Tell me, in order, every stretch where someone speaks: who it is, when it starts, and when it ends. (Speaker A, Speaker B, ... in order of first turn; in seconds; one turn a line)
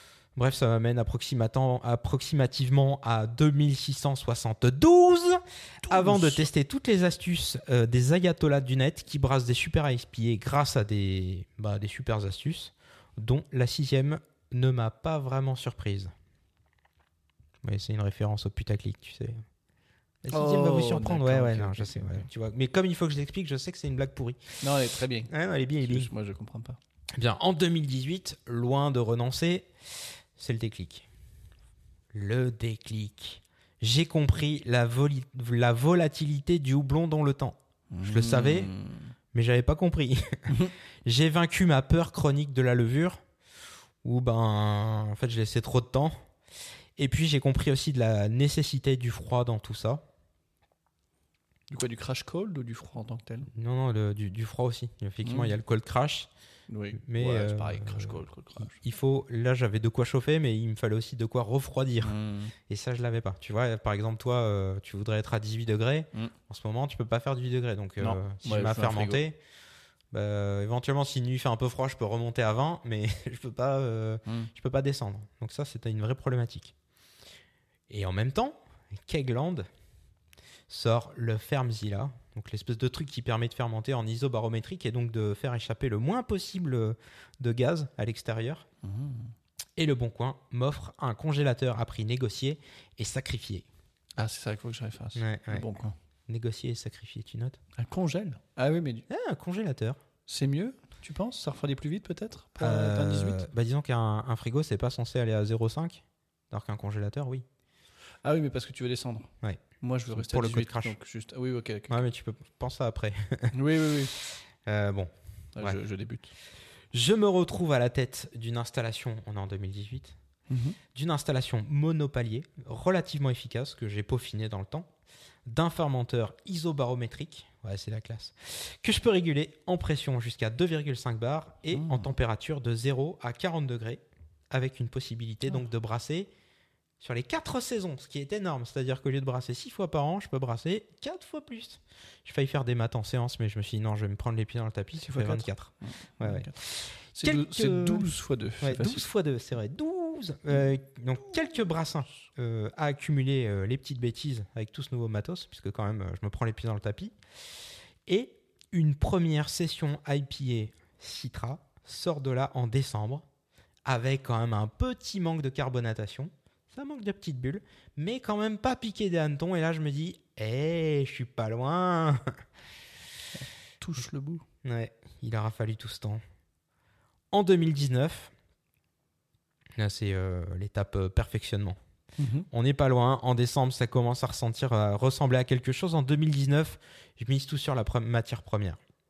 Speaker A: 0.4-16.1
Speaker B: 5.9-6.5
Speaker A: 17.6-19.4
Speaker A: 20.2-24.4
Speaker B: 20.3-22.3
Speaker B: 24.6-26.8
Speaker A: 25.3-26.1
Speaker A: 27.1-29.7
Speaker A: 30.4-31.1
Speaker A: 32.1-38.7
Speaker B: 37.9-39.1
Speaker A: 39.3-43.2
Speaker A: 44.0-46.2
Speaker A: 47.0-50.0
Speaker B: 51.7-53.5
Speaker A: 53.5-56.3
Speaker B: 55.2-55.5
Speaker B: 56.7-58.8
Speaker A: 56.9-62.2
Speaker B: 62.0-62.5
Speaker A: 62.7-69.4
Speaker B: 68.0-69.2
Speaker A: 70.1-76.7
Speaker A: 77.9-79.7
Speaker A: 80.7-88.7
Speaker B: 88.8-89.3
Speaker A: 89.8-93.7
Speaker B: 94.2-95.9
Speaker A: 95.2-95.7
Speaker A: 96.3-97.6
Speaker B: 97.8-99.1
Speaker A: 99.1-100.0
Speaker B: 100.3-103.5
Speaker A: 102.6-107.5
Speaker B: 108.2-109.3
Speaker A: 109.4-111.0
Speaker B: 109.8-112.0
Speaker A: 111.9-113.5
Speaker B: 113.5-114.1
Speaker A: 114.6-115.8
Speaker B: 115.6-116.3
Speaker A: 116.9-120.2
Speaker B: 120.5-120.8
Speaker A: 120.9-124.9
Speaker A: 125.5-136.3
Speaker B: 131.7-132.1
Speaker A: 137.0-157.2
Speaker B: 145.0-146.6
Speaker B: 147.1-149.1
Speaker A: 158.1-163.3
Speaker A: 163.8-172.4
Speaker B: 173.4-174.4
Speaker A: 174.6-176.2
Speaker A: 177.3-178.3
Speaker A: 179.8-181.8
Speaker B: 182.2-182.5
Speaker A: 182.5-188.8